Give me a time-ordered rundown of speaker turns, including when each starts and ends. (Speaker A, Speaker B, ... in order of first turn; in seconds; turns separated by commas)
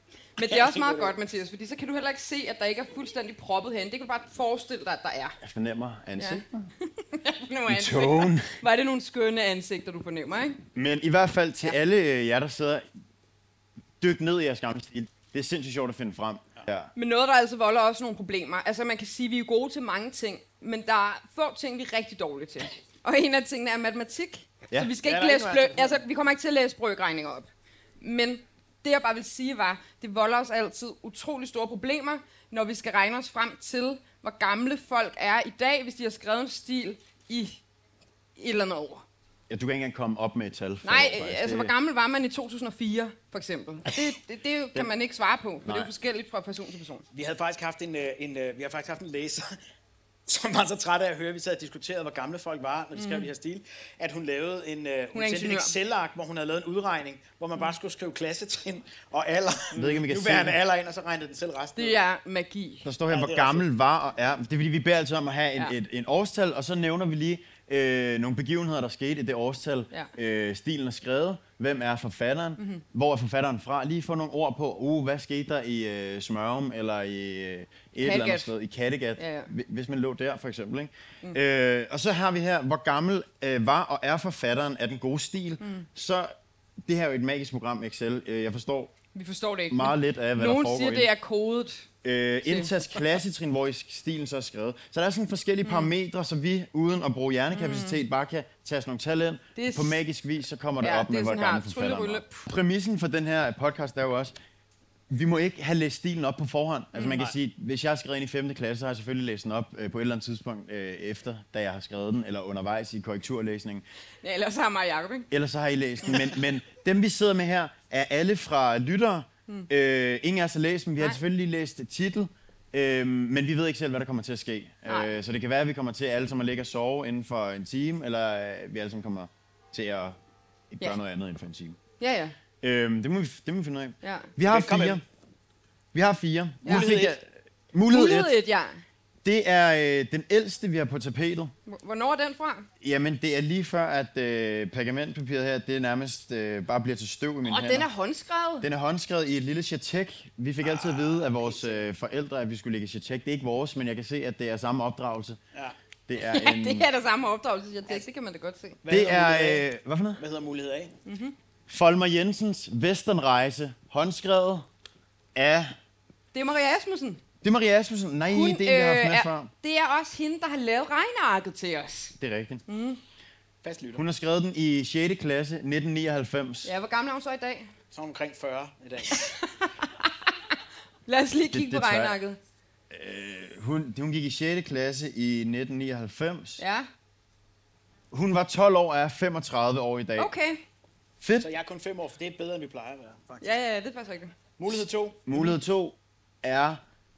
Speaker A: 0.4-5.4, Speaker B: 0.4-1.1, Speaker C: 5.4-6.7, Speaker A: 6.2-10.6, Speaker C: 7.7-8.6, Speaker C: 10.8-12.9, Speaker C: 14.0-16.9, Speaker A: 16.9-27.5, Speaker B: 25.0-26.0, Speaker A: 28.0-37.6, Speaker A: 38.4-39.0, Speaker C: 39.5-41.7, Speaker A: 40.8-47.0, Speaker C: 45.6-45.9, Speaker B: 47.1-49.5, Speaker B: 50.3-62.0, Speaker A: 53.0-53.3, Speaker A: 55.1-55.7, Speaker C: 59.7-60.6, Speaker A: 61.8-62.9, Speaker C: 62.8-88.9, Speaker B: 63.1-63.7, Speaker A: 78.0-78.5, Speaker A: 79.2-79.5, Speaker A: 85.6-85.9, Speaker A: 89.2-91.9, Speaker C: 89.7-91.1, Speaker C: 92.0-104.3, Speaker A: 92.4-92.7, Speaker A: 95.7-95.9, Speaker A: 97.5-98.0, Speaker A: 99.6-100.0, Speaker A: 100.8-102.4, Speaker C: 105.1-113.9, Speaker A: 106.9-107.2, Speaker A: 114.2-115.3, Speaker C: 115.3-130.2, Speaker A: 124.9-125.1, Speaker C: 130.7-131.8, Speaker A: 132.0-132.3, Speaker C: 132.6-135.0, Speaker A: 134.0-134.3, Speaker B: 134.4-135.0, Speaker C: 135.9-138.4, Speaker B: 136.7-137.2, Speaker A: 137.9-138.8, Speaker C: 139.2-141.5, Speaker A: 141.7-142.7, Speaker C: 142.8-147.9, Speaker A: 147.4-148.7, Speaker C: 148.6-155.4, Speaker B: 150.6-151.9, Speaker C: 156.1-156.9, Speaker A: 156.2-158.8, Speaker B: 158.8-159.7, Speaker C: 158.9-160.2, Speaker B: 160.2-160.9, Speaker A: 161.1-161.3, Speaker C: 161.7-164.7, Speaker C: 165.3-165.7, Speaker A: 166.3-167.2, Speaker C: 167.4-169.5, Speaker A: 168.3-172.2, Speaker C: 172.2-172.6, Speaker A: 172.7-173.0, Speaker B: 173.6-174.1, Speaker C: 174.0-176.7, Speaker A: 176.6-177.7, Speaker B: 177.9-179.3, Speaker A: 179.1-180.6, Speaker A: 181.1-182.4, Speaker C: 181.4-182.2, Speaker C: 182.9-186.6, Speaker A: 186.6-186.9, Speaker C: 188.1-190.3, Speaker A: 190.2-190.6, Speaker C: 191.2-191.5, Speaker B: 191.4-193.4, Speaker A: 193.4-194.3, Speaker B: 194.6-195.4, Speaker C: 195.3-196.8